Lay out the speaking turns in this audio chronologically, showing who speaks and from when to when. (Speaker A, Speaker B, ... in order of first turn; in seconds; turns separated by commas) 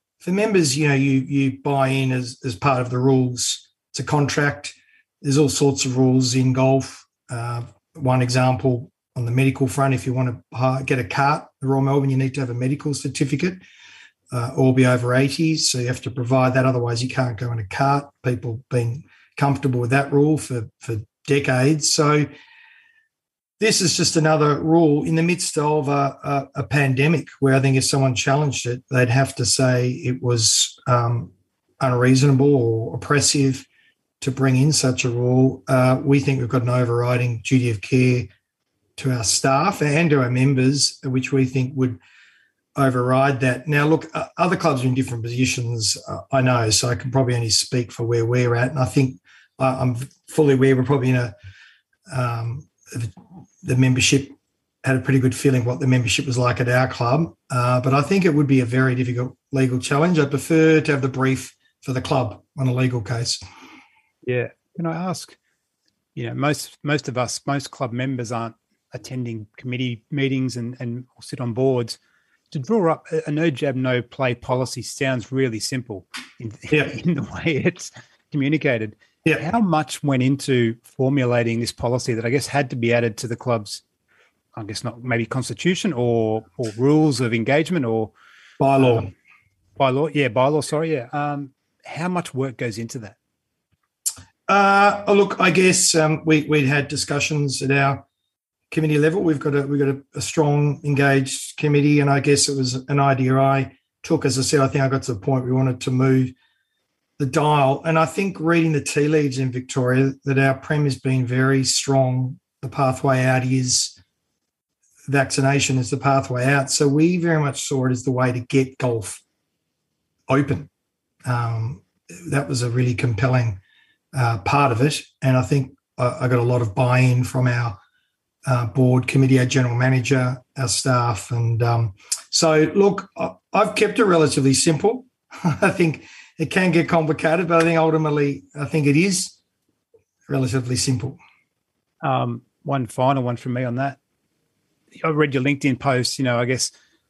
Speaker A: 0.2-13.6, Speaker A: 14.3-22.3, Speaker A: 23.6-33.7, Speaker A: 34.2-38.3, Speaker A: 39.0-42.0, Speaker A: 42.8-51.3, Speaker A: 52.1-63.4, Speaker B: 64.2-65.4, Speaker B: 66.2-72.0, Speaker B: 72.5-83.8, Speaker B: 84.5-88.1, Speaker A: 88.6-89.1, Speaker B: 88.8-89.1, Speaker B: 89.8-93.2, Speaker A: 94.5-98.1, Speaker A: 98.7-106.3, Speaker A: 107.2-114.0, Speaker A: 115.1-119.2, Speaker A: 120.3-120.7, Speaker A: 121.2-123.6, Speaker A: 124.1-127.8, Speaker A: 128.4-139.4, Speaker A: 140.3-141.2, Speaker B: 142.0-144.0, Speaker B: 145.0-146.7